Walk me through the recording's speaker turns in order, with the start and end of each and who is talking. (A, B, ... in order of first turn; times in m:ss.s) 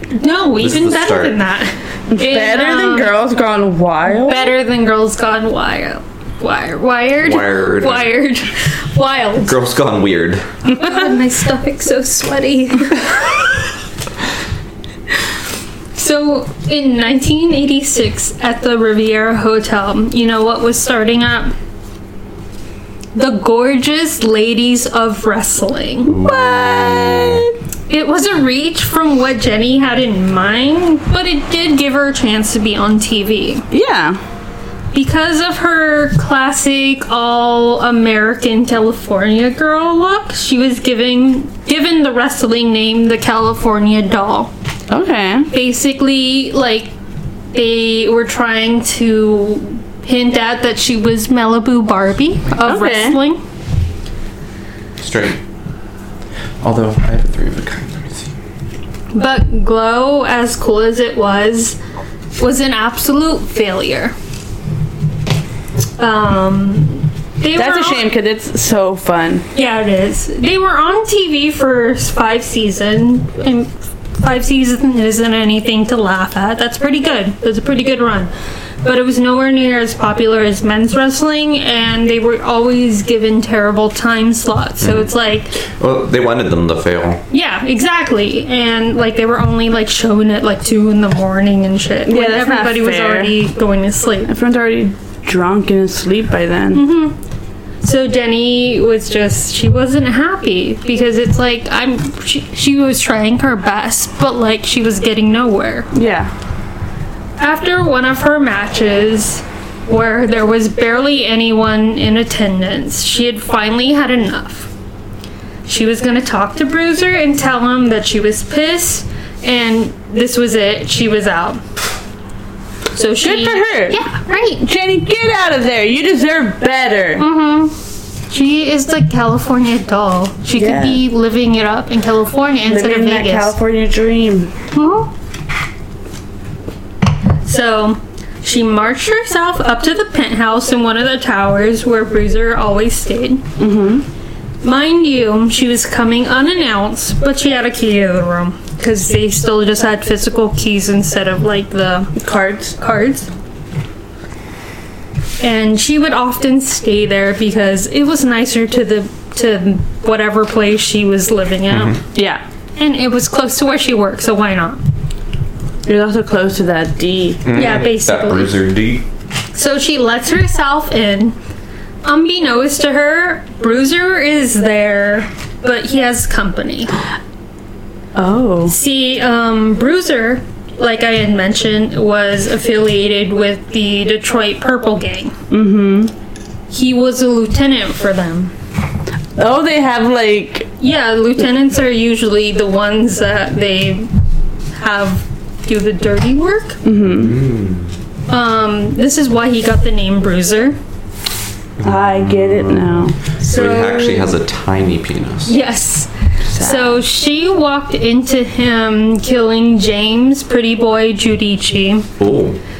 0:00.1-0:03.1 A
0:00.6-0:01.4 B
0:02.1-0:04.5 C
0:04.1-0:09.5 A
0:07.2-0:08.1 B
0:09.4-0:10.5 B
0:10.7-0:13.5 A
0:15.9-0:21.5 A
0:23.1-0:26.2 A
0:26.1-0:27.5 C
0:26.1-0:27.4 B
0:27.9-0:33.6 A
0:33.7-0:34.2 C
0:34.9-0:44.5 A
0:44.9-0:45.5 C
0:45.5-0:46.9 A
0:47.5-0:53.4 A
0:52.5-0:53.2 C
0:55.0-0:55.4 B
0:56.6-0:58.3 B
0:59.1-1:01.8 A
1:02.4-1:04.1 A
1:06.0-1:08.0 A
1:07.5-1:09.4 C
1:09.5-1:18.3 A
1:18.8-1:25.6 A
1:24.8-1:25.1 B
1:25.8-1:27.2 B
1:27.3-1:34.3 A
1:32.0-1:33.4 C
1:34.2-1:36.8 C
1:36.7-1:37.2 A
1:37.8-1:45.9 A
1:45.9-1:46.3 C
1:47.4-1:54.7 A
1:55.6-2:01.6 A
2:02.9-2:04.6 A
2:03.2-2:04.0 C
2:04.6-2:07.2 C
2:07.2-2:07.7 A
2:08.3-2:13.5 A
2:10.5-2:11.0 C
2:12.7-2:14.5 C
2:14.7-2:15.1 A
2:17.4-2:23.4 A
2:23.6-2:24.0 C
2:24.6-2:32.2 A
2:32.2-2:32.8 C
2:32.8-2:33.3 A
2:35.4-2:42.0 A
2:41.7-2:42.0 B
2:42.1-2:42.4 C
2:42.8-2:44.8 A
2:45.8-2:47.5 C
2:47.4-2:49.0 B
2:47.5-2:48.6 A
2:49.5-2:51.4 A
2:52.0-2:57.0 A
2:58.2-2:58.8 C
2:58.7-3:05.3 A
3:05.5-3:06.1 C
3:06.7-3:08.5 A
3:09.4-3:10.7 C
3:10.8-3:14.1 A
3:14.7-3:16.8 A
3:16.8-3:17.4 C
3:17.1-3:17.9 B
3:18.3-3:20.8 A
3:21.8-3:25.5 B
3:21.8-3:23.2 C
3:23.4-3:24.3 A
3:25.5-3:32.1 A
3:26.5-3:27.0 C
3:32.2-3:32.6 B